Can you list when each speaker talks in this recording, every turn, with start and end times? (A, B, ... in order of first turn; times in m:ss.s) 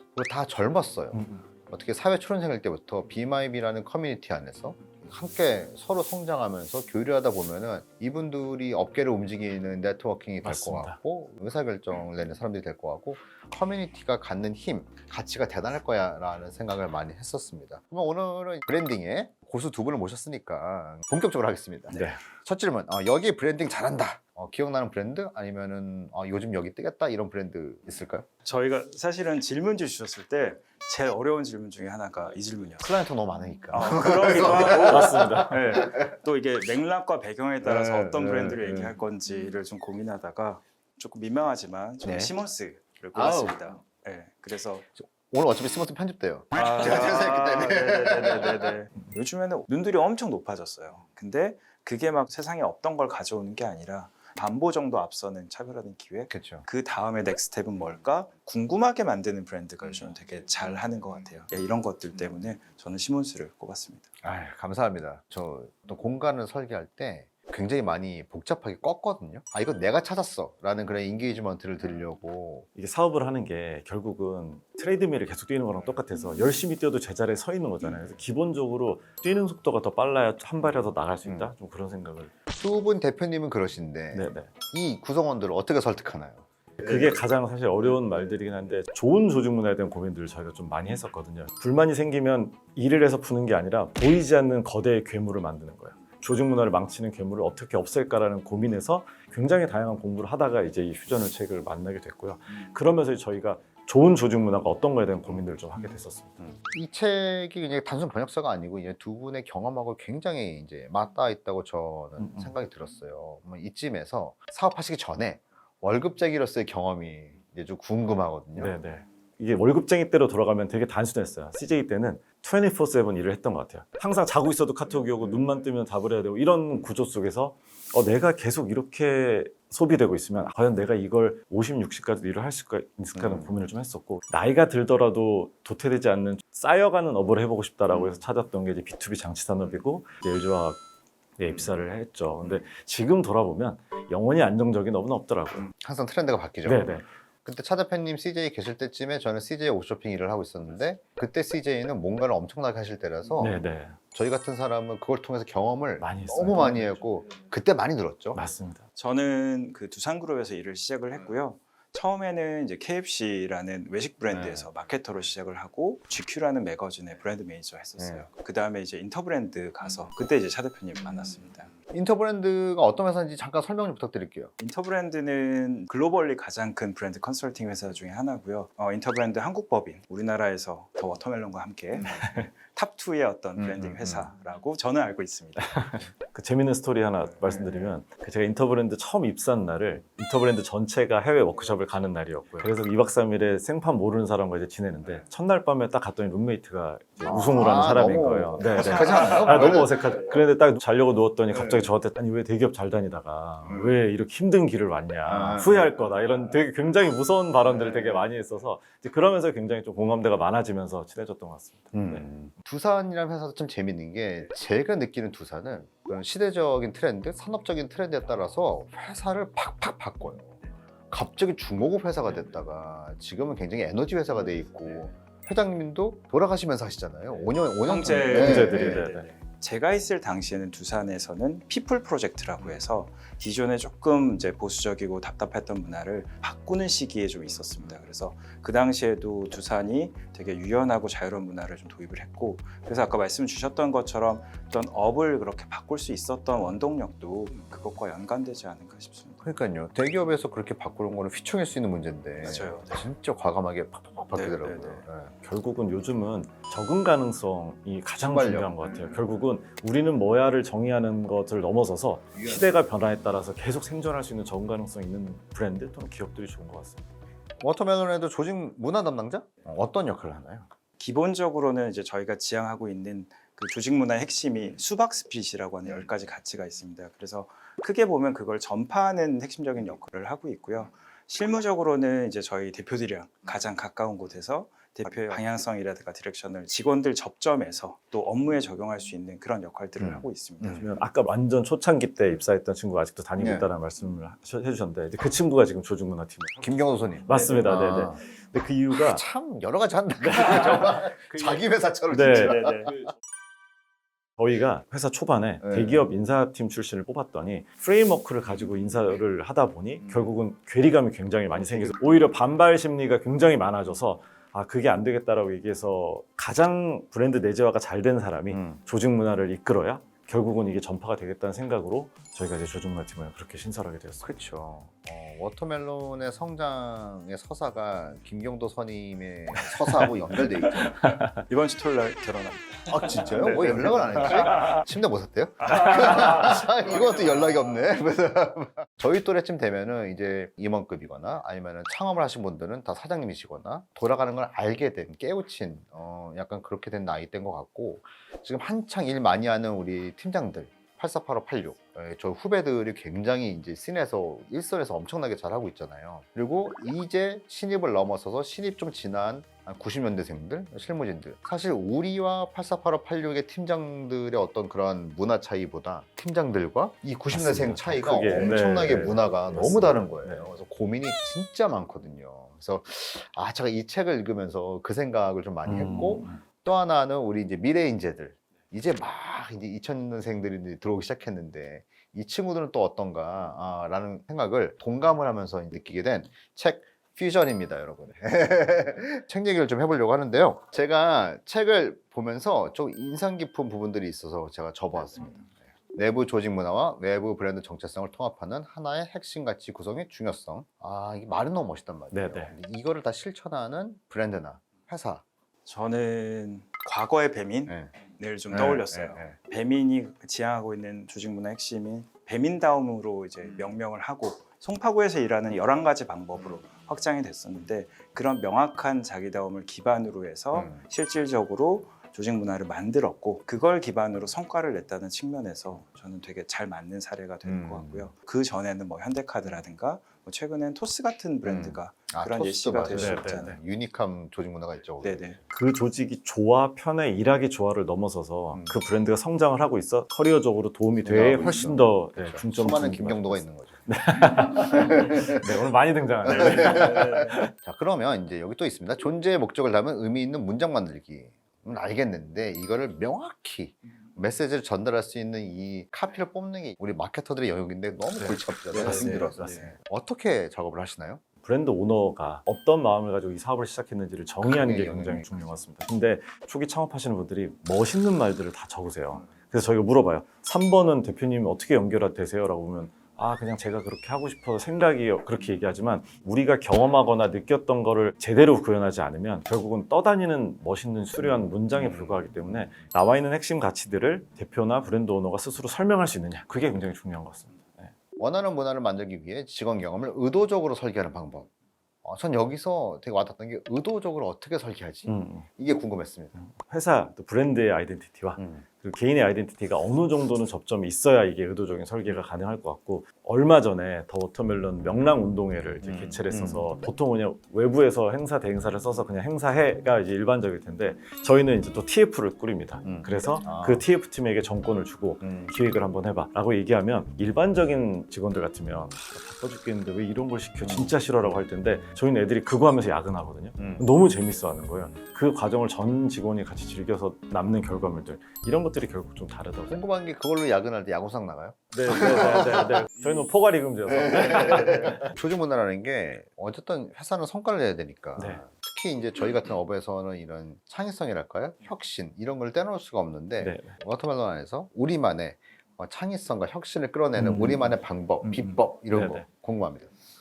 0:00.1-0:28.2 A
0:01.1-0:01.4 B
0:10.4-0:11.0 B
0:28.4-0:32.9 C
0:32.8-0:36.2 A
0:33.7-0:44.9 C
0:34.6-0:35.8 B
0:37.6-0:38.9 A
0:42.0-0:42.3 A
0:43.1-0:43.8 A
0:45.0-0:48.7 A
0:46.5-1:04.1 C
0:56.3-0:56.6 A
1:04.2-1:12.6 A
1:12.7-1:22.3 B
1:21.2-1:21.5 A
1:22.5-1:27.0 A
1:24.1-1:24.5 B
1:26.8-1:46.3 B
1:46.4-1:58.7 A
1:52.2-1:52.5 B
1:58.6-2:20.8 B
2:13.2-2:13.5 A
2:21.4-2:25.7 B
2:25.8-2:33.6 A
2:26.6-2:27.0 B
2:33.4-2:34.0 B
2:34.1-2:38.4 A
2:36.0-2:36.8 B
2:38.3-2:38.8 B
2:39.0-2:51.7 C
2:44.3-2:44.6 A
2:48.0-2:48.2 A
2:51.9-2:54.5 A
2:54.6-3:05.9 C
3:03.6-3:04.3 A
3:05.6-3:32.3 B
3:17.2-3:20.0 A
3:25.2-3:25.9 A
3:31.9-3:40.6 A
3:41.1-3:49.0 A
3:47.8-4:09.4 C
3:48.2-3:49.3 B
4:09.4-4:15.3 A
4:12.4-4:13.0 C
4:14.3-4:15.0 C
4:15.4-4:27.0 B
4:18.2-4:19.1 A
4:22.3-4:22.6 A
4:27.6-4:30.6 A
4:31.0-4:50.8 C
4:50.0-4:50.8 A
4:50.8-4:56.7 B
4:53.4-4:53.6 A
4:56.6-4:58.2 A
4:57.2-4:59.2 B
4:58.9-5:03.1 A
5:00.2-5:01.2 B
5:02.1-5:03.0 B
5:02.3-5:02.9 C
5:04.4-5:24.3 B
5:05.6-5:06.0 A
5:11.6-5:12.0 A
5:18.5-5:18.8 A
5:24.2-5:31.0 A
5:29.6-5:30.1 B
5:30.7-5:31.4 B
5:31.5-5:34.8 C
5:32.9-6:45.2 A
5:35.6-5:36.7 C
6:07.3-6:10.5 B
6:15.6-6:16.4 B
6:42.1-6:42.5 B
6:45.6-7:13.6 C
6:47.7-6:47.9 A
6:48.5-6:49.4 A
7:00.5-7:00.8 A
7:07.4-7:08.1 A
7:11.4-7:15.4 A
7:12.9-7:13.6 B
7:15.0-7:15.4 C
7:15.5-7:27.5 B
7:21.0-7:25.4 A
7:26.2-7:41.2 A
7:26.6-7:27.3 C
7:38.2-7:39.7 B
7:38.7-7:39.6 C
7:41.4-8:07.9 B
7:44.4-7:45.4 A
8:01.8-8:02.3 A
8:08.2-8:11.5 A
8:12.0-8:16.4 A
8:15.1-8:15.4 B
8:16.4-8:49.8 B
8:18.4-8:18.6 A
8:25.8-8:26.7 A
8:32.8-8:33.8 A
8:35.2-8:35.5 A
8:40.6-8:40.9 A
8:43.6-8:43.8 A
8:49.7-8:53.1 A
8:51.7-8:55.1 B
8:53.9-9:09.9 A
8:54.6-8:54.9 C
8:58.2-8:58.4 B
9:03.4-9:03.7 B
9:07.2-9:09.2 B